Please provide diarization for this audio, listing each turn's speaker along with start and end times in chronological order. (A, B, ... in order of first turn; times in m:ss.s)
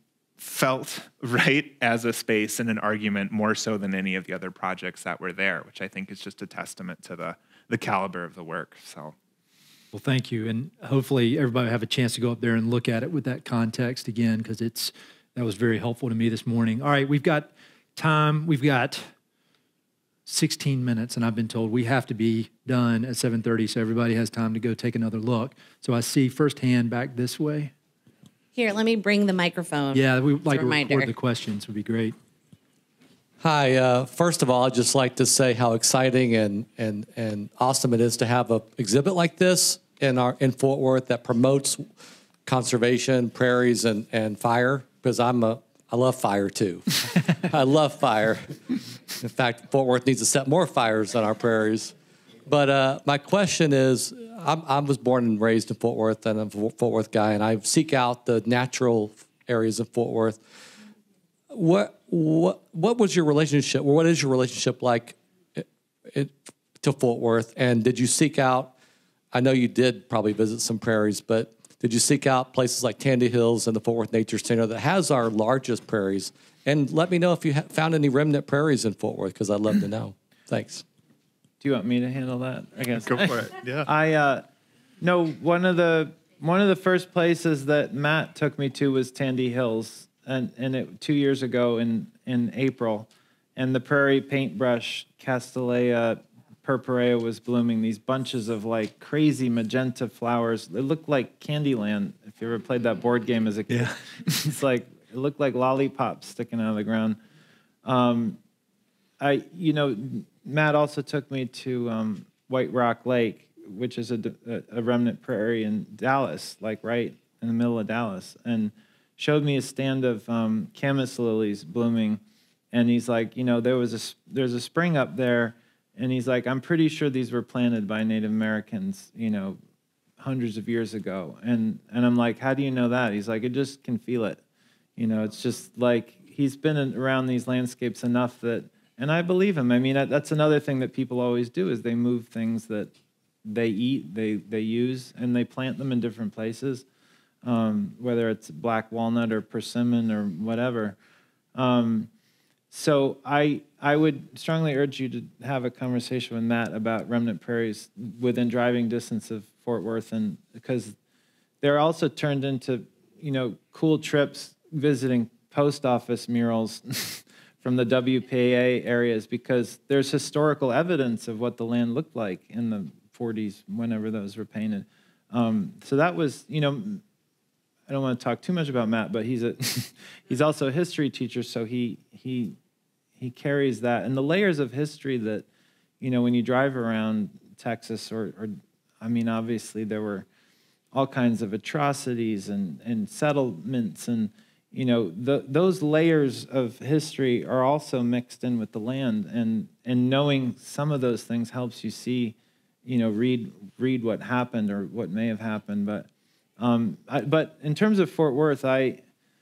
0:00.4-0:09.1 A
0:09.9-0:19.1 B
0:20.3-0:27.7 B
0:28.6-0:31.1 C
0:29.9-0:32.1 B
0:33.4-0:41.9 D
0:42.4-0:48.6 D
0:49.2-0:51.9 D
0:52.4-1:00.4 D
1:01.5-1:08.7 D
1:09.3-1:20.8 D
1:21.6-1:24.4 E
1:23.0-1:23.9 A
1:25.0-1:47.2 E
1:43.7-1:44.4 B
1:47.8-1:48.4 E
1:49.2-2:02.2 E
2:02.7-2:09.6 E
2:10.2-2:14.4 E
2:15.0-2:22.9 E
2:23.4-2:26.8 E
2:27.4-2:31.0 E
2:31.6-2:32.1 E
2:32.7-2:40.9 E
2:41.6-2:57.0 E
2:57.9-3:02.6 E
3:03.2-3:05.4 E
3:06.0-3:10.3 E
3:10.9-3:29.0 E